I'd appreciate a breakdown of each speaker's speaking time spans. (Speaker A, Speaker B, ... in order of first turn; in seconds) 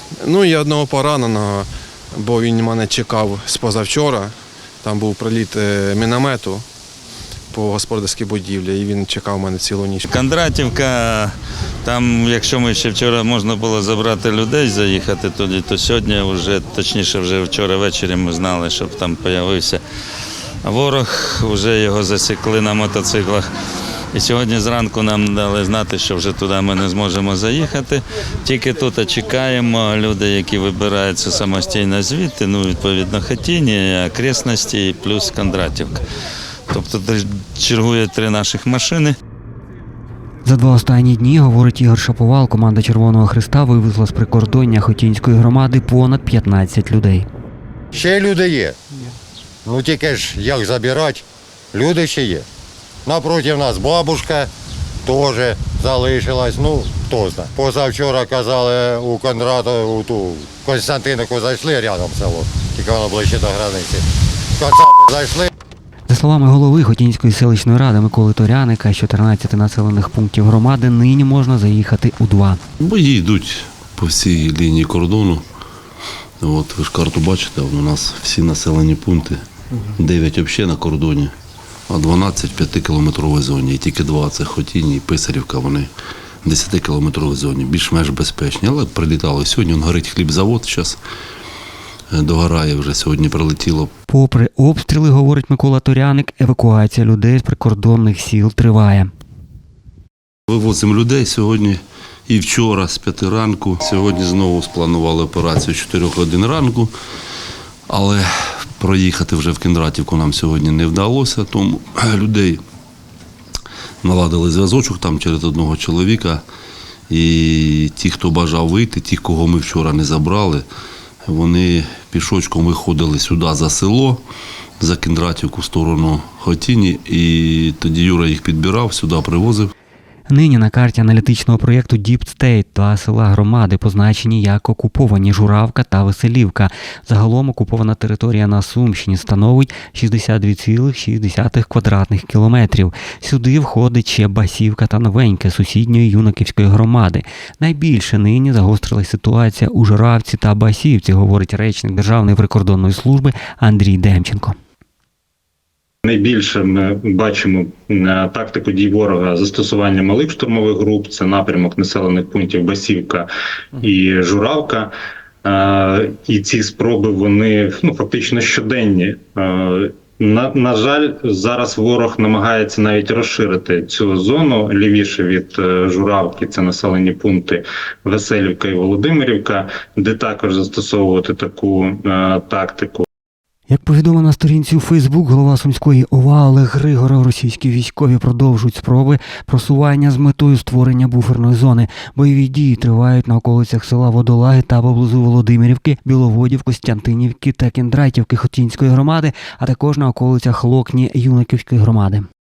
Speaker A: 0.2-6.7, 7.5-10.1
Speaker B: 10.1-19.8, 20.6-23.5, 24.1-36.0, 36.7-39.2
Speaker C: 40.4-47.3, 66.1-72.6, 94.1-99.1, 130.3-154.6, 183.7-202.3
Speaker D: 47.9-48.8, 49.6-52.5, 53.1-54.5, 55.1-64.0, 64.6-65.5
Speaker E: 72.8-75.4, 76.4-79.4, 80.0-81.3, 81.9-85.9, 86.4-91.0, 92.1-93.9, 100.5-106.9, 107.9-112.6, 114.0-116.4, 117.1-120.7, 121.3-124.2, 124.8-129.7
Speaker F: 156.1-163.3, 163.8-164.9, 165.4-183.1